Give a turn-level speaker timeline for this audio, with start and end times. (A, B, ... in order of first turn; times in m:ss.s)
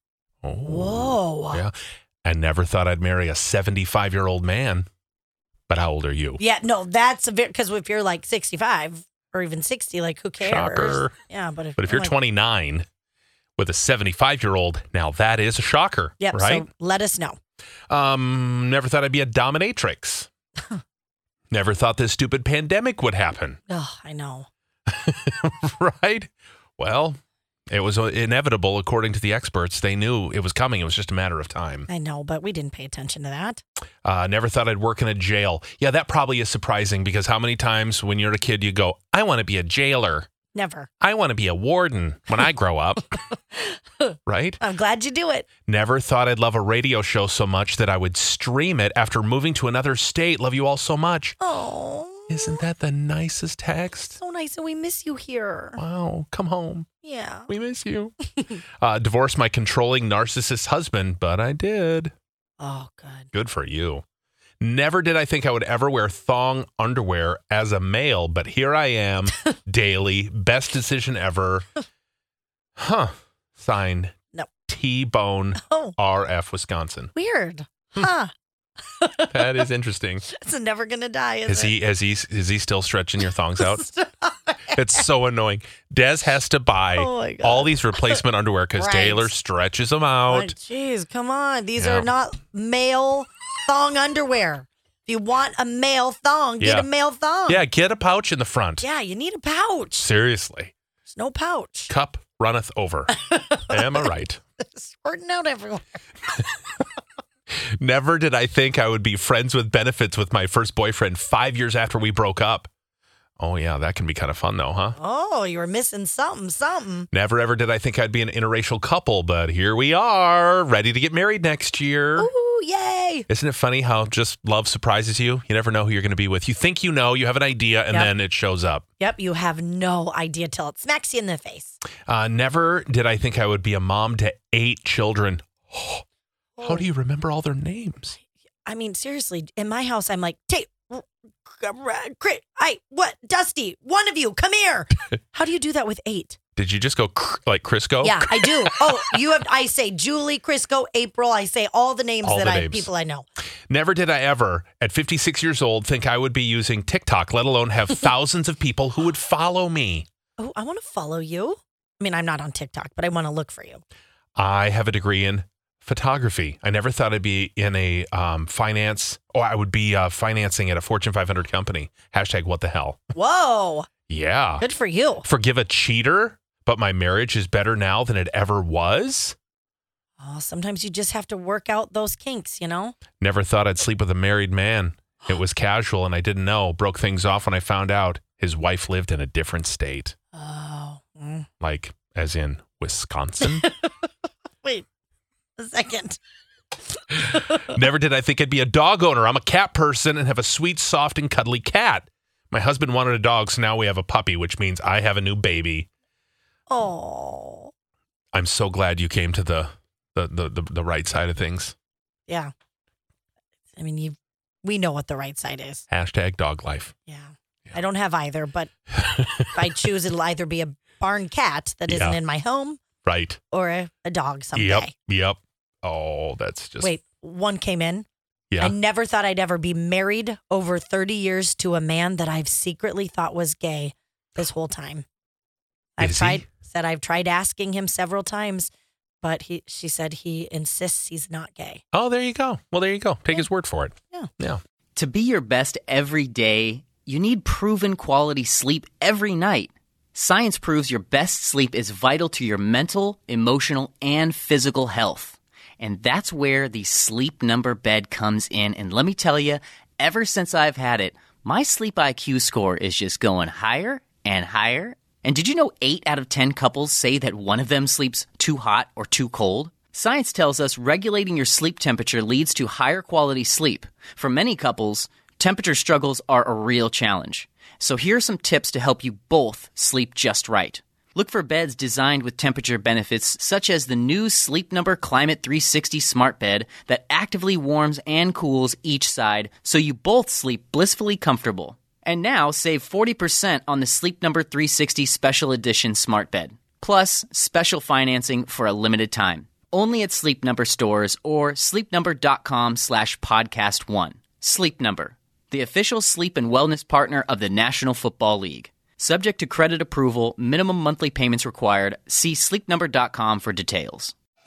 0:00.4-0:04.9 A
0:00.7-0:01.6 B
0:05.7-0:06.4 A
0:06.4-0:12.1 B
0:10.4-0:11.2 A
0:11.8-0:12.8 A
0:13.6-0:16.6 A
0:16.2-0:17.4 B
0:17.9-0:20.3 A
0:21.5-0:23.6 A
0:23.7-0:24.5 B
0:24.9-0:27.2 A
0:27.7-0:31.9 A
0:31.9-0:33.6 B
0:34.0-0:40.3 A
0:40.5-0:40.9 B
0:41.0-0:43.1 A
0:43.5-0:45.5 B
0:44.3-0:44.6 A
0:45.7-0:51.4 A
0:51.4-0:52.6 B
0:52.3-0:54.2 A
0:54.1-0:55.8 B
0:55.8-0:56.9 A
0:57.0-0:57.5 B
0:57.5-0:58.1 A
0:58.8-1:02.1 A
1:02.6-1:03.3 B
1:03.3-1:04.0 A
1:04.6-1:11.7 A
1:12.8-1:14.2 A
1:14.7-1:17.1 A
1:15.6-1:15.9 B
1:17.2-1:18.3 B
1:18.9-1:19.6 B
1:19.3-1:20.2 A
1:20.2-1:21.7 B
1:21.5-1:23.9 A
1:23.6-1:25.0 B
1:24.8-1:30.5 A
1:27.0-1:28.2 B
1:28.8-1:29.3 B
1:30.3-1:37.6 B
1:31.8-1:32.1 A
1:36.6-1:36.9 A
1:37.5-1:38.8 A
1:38.8-1:40.1 B
1:40.0-1:40.7 A
1:41.1-1:41.9 B
1:41.9-1:44.4 A
1:43.2-1:44.0 B
1:44.6-1:46.0 B
1:47.5-1:52.7 A
1:53.4-1:55.0 A
1:55.0-1:57.1 B
1:57.1-2:02.3 A
2:02.2-2:03.3 B
2:03.3-2:08.8 A
2:09.0-2:11.8 B
2:12.1-2:16.0 A
2:16.6-2:16.8 B
2:16.6-2:18.2 A
2:18.7-2:26.4 B
2:26.6-2:28.8 A
2:28.0-2:33.3 B
2:32.2-2:32.9 A
2:33.7-2:40.1 A
2:40.4-2:43.8 B
2:44.4-2:53.0 A
2:53.2-2:53.9 B
2:54.1-2:54.6 A
2:54.6-2:55.2 B
2:55.2-2:59.4 A
3:00.2-3:03.0 B
3:03.2-3:10.2 A
3:10.4-3:11.5 B
3:11.6-3:13.7 A
3:15.6-3:16.2 B
3:17.1-3:25.9 A
3:26.7-3:27.7 B
3:28.3-3:31.8 A
3:33.8-3:35.8 B
3:35.9-3:36.9 A
3:37.1-3:38.7 B
3:39.0-3:39.5 A
3:39.5-3:42.8 B
3:41.9-3:42.2 A
3:43.0-3:43.4 A
3:43.5-3:44.9 B
3:44.6-3:46.9 A
3:46.8-3:48.1 B
3:48.6-3:55.0 B
3:56.0-3:58.7 B
3:56.0-3:56.4 A
3:59.2-4:01.8 B
4:01.9-4:04.6 A
4:05.0-5:14.1 C